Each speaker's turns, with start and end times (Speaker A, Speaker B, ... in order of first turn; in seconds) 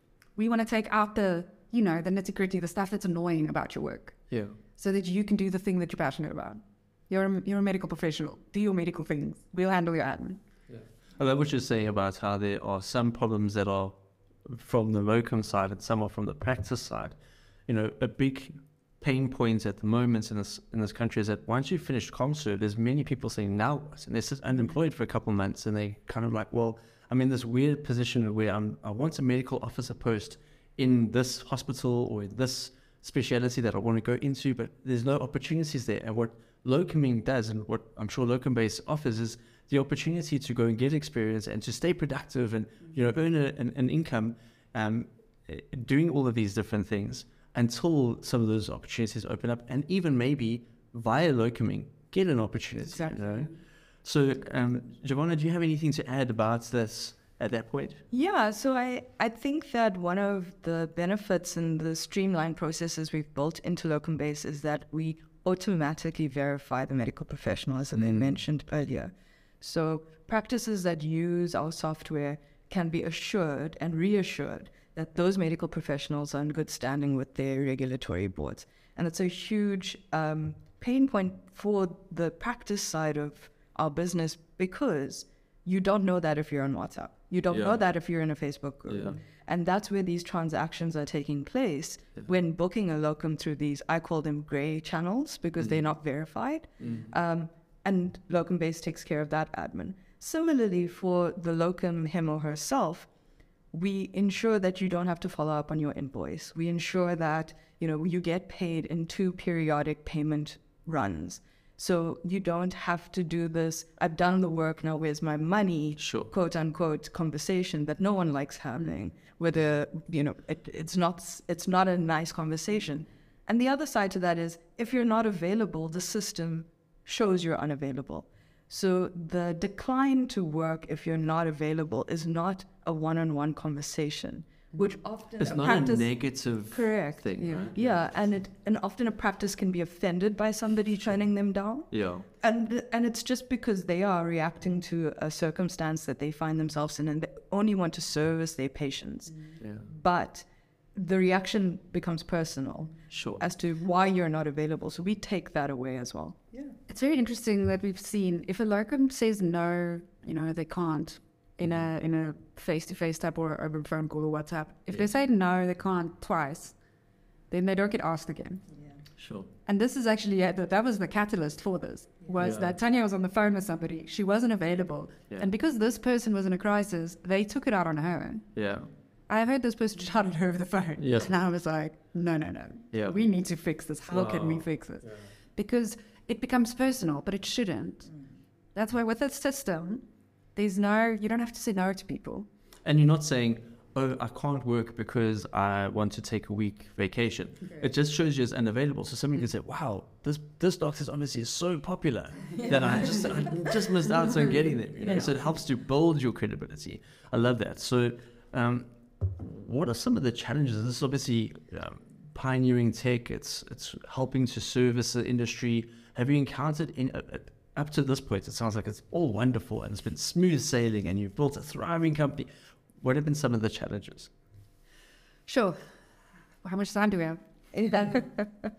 Speaker A: 0.4-10.4, 52.9-53.5, 137.4-137.7, 156.9-166.8, 167.5-168.7, 169.7-178.6, 179.3-190.1, 190.6-192.5, 225.5-225.8, 226.6-228.3
Speaker B: 4.3-4.6, 10.7-17.2, 17.7-53.5, 54.0-58.0, 68.0-68.4, 87.5-87.8, 88.9-89.2, 95.6-95.8, 96.8-97.1, 116.0-116.3, 135.4-138.0, 141.9-142.3, 149.6-149.9, 153.1-153.4, 169.2-169.5, 172.4-172.8, 178.6-178.9, 181.0-181.3, 184.1-185.3, 192.8-222.5, 223.0-224.3
Speaker C: 58.1-103.1, 103.7-136.2, 136.7-156.6, 205.0-205.3, 227.7-228.5